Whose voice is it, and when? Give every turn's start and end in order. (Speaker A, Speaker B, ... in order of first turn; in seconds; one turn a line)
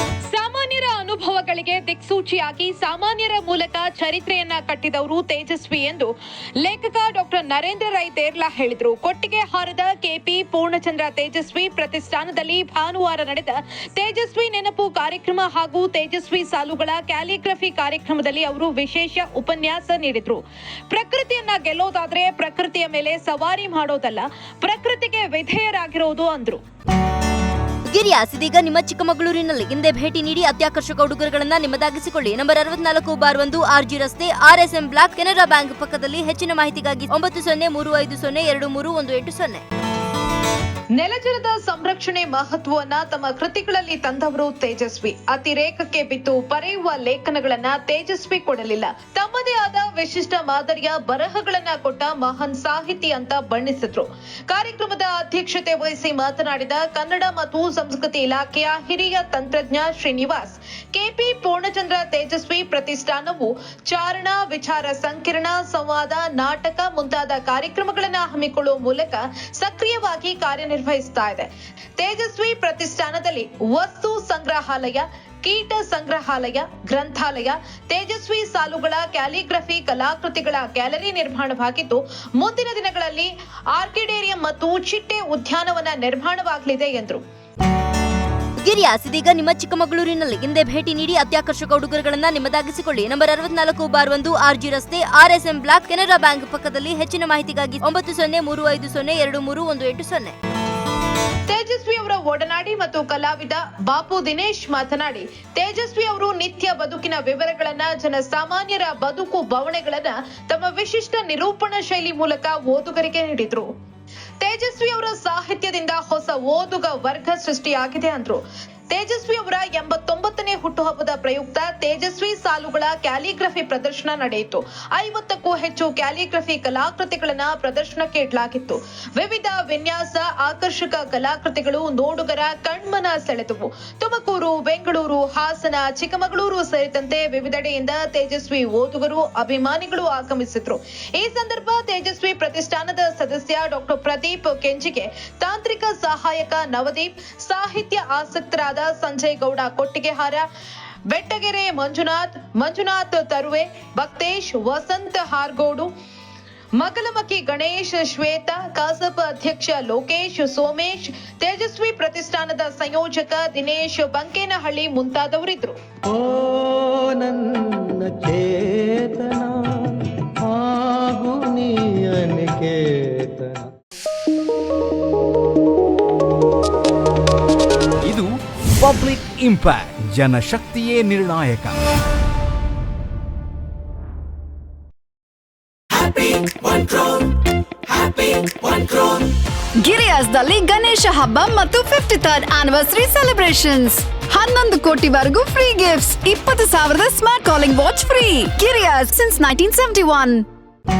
Speaker A: 0.3-26.6
Speaker B: 27.9-39.6
Speaker A: 40.9-87.2
Speaker B: 88.6-100.3
Speaker A: 101.5-113.7
Speaker A: 114.4-150.5
Speaker A: 151.1-155.9
Speaker A: 156.8-165.8
Speaker C: 166.1-173.7
Speaker D: 178.0-181.8
Speaker E: 186.0-187.1
Speaker E: 188.5-189.1
Speaker E: 189.8-200.4